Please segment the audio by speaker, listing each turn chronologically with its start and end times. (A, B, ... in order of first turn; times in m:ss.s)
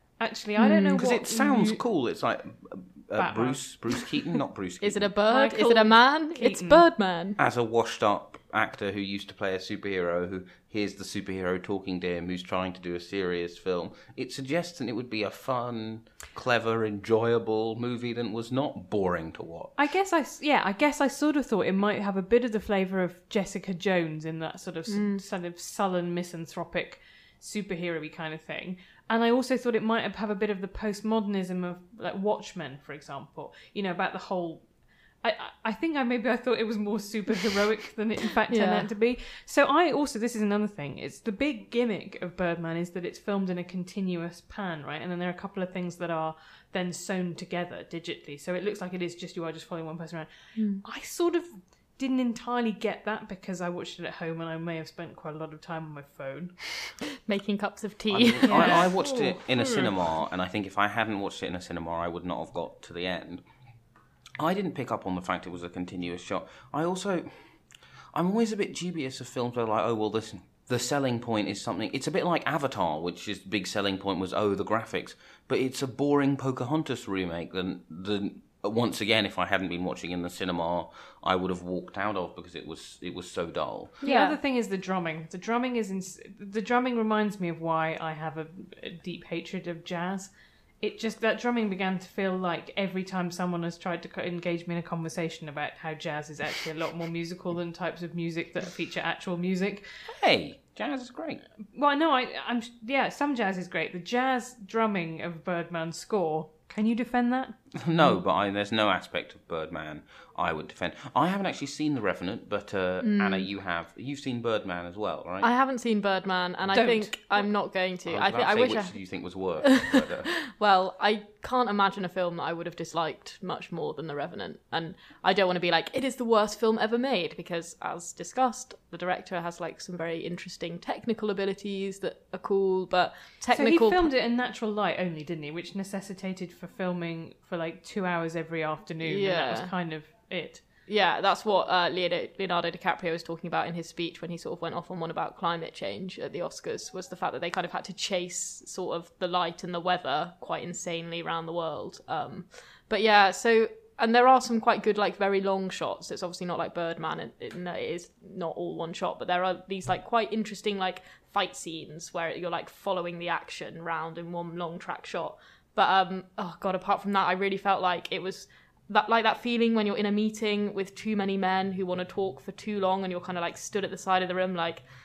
0:00.2-0:01.8 A
0:00.6-0:00.8 B
0:00.8-0:05.1 C
0:03.2-0:04.0 A
0:04.8-0:07.4 B
0:05.3-0:06.8 A
0:07.4-0:19.8 C
0:19.8-0:34.6 A
0:24.9-0:25.2 B
0:35.2-0:50.3 A
0:38.5-0:38.9 B
0:50.6-0:50.8 B
0:50.8-0:56.5 A
0:57.2-0:59.0 B
0:58.1-1:03.4 C
0:58.4-0:59.9 A
1:04.4-1:07.6 C
1:08.1-1:24.0 C
1:24.0-1:24.4 B
1:24.0-1:30.3 A
1:30.8-1:39.8 A
1:40.1-1:41.4 C
1:41.7-1:48.2 A
1:47.8-1:55.5 C
1:53.0-1:53.5 B
1:55.4-2:14.1 B
1:56.7-1:57.4 A
1:58.0-2:00.3 C
2:13.5-2:20.6 A
2:19.0-2:19.7 B
2:20.9-2:54.8 B